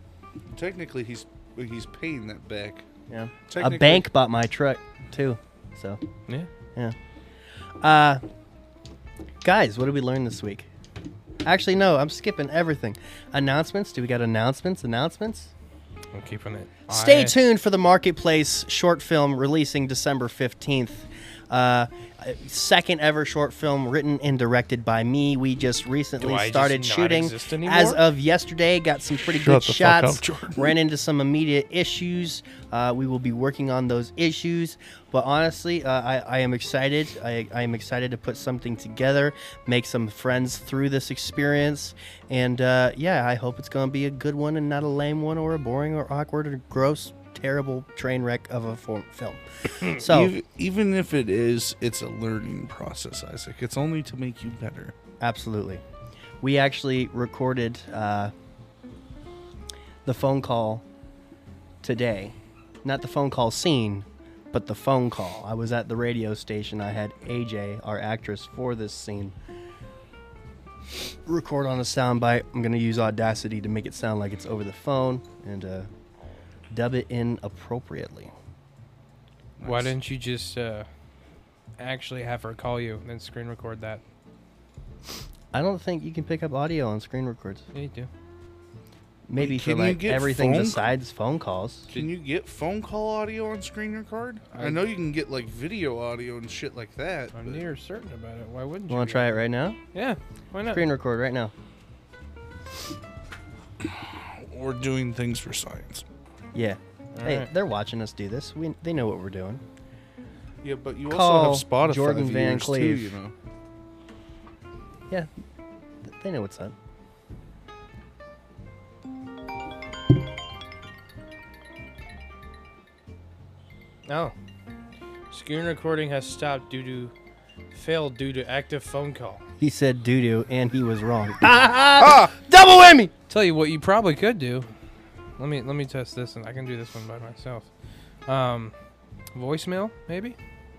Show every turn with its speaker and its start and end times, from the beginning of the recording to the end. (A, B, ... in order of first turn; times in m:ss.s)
0:00.5-0:02.8 A
0:03.1-0:06.0 B
0:03.5-0:04.0 A
0:07.8-0:08.2 B
0:09.4-0:10.7 B
0:11.4-0:15.5 B
0:16.1-0:17.4 C
0:16.9-0:50.3 B
0:26.2-0:28.0 C
0:29.3-0:30.7 A
0:50.0-0:54.9 A
0:55.2-0:55.8 B
0:56.4-0:58.3 B
1:00.0-1:00.8 B
1:01.8-1:09.3 B
1:11.2-1:15.9 B
1:16.7-1:18.3 B
1:19.6-1:20.0 A
1:19.6-1:20.9 C
1:21.8-1:24.0 C
1:25.5-1:27.6 B
1:27.7-1:28.1 C
1:29.3-1:31.9 B
1:29.4-1:30.8 A
1:31.9-1:37.6 A
1:34.5-1:34.8 C
1:37.3-1:39.3 C
1:38.9-1:39.8 B
1:39.9-1:40.9 C
1:40.7-1:41.5 B
1:43.8-1:46.0 A
1:46.5-1:49.6 B
1:47.1-1:47.5 C
1:50.6-1:53.3 A
1:51.1-1:53.1 B
1:56.0-1:56.7 B
2:04.0-2:04.3 C
2:05.3-2:07.1 C
2:07.7-2:09.4 C
2:09.6-2:13.1 B
2:12.0-2:12.3 A
2:13.3-2:14.7 C
2:15.4-2:17.7 C
2:18.3-2:18.7 C
2:19.3-2:20.4 C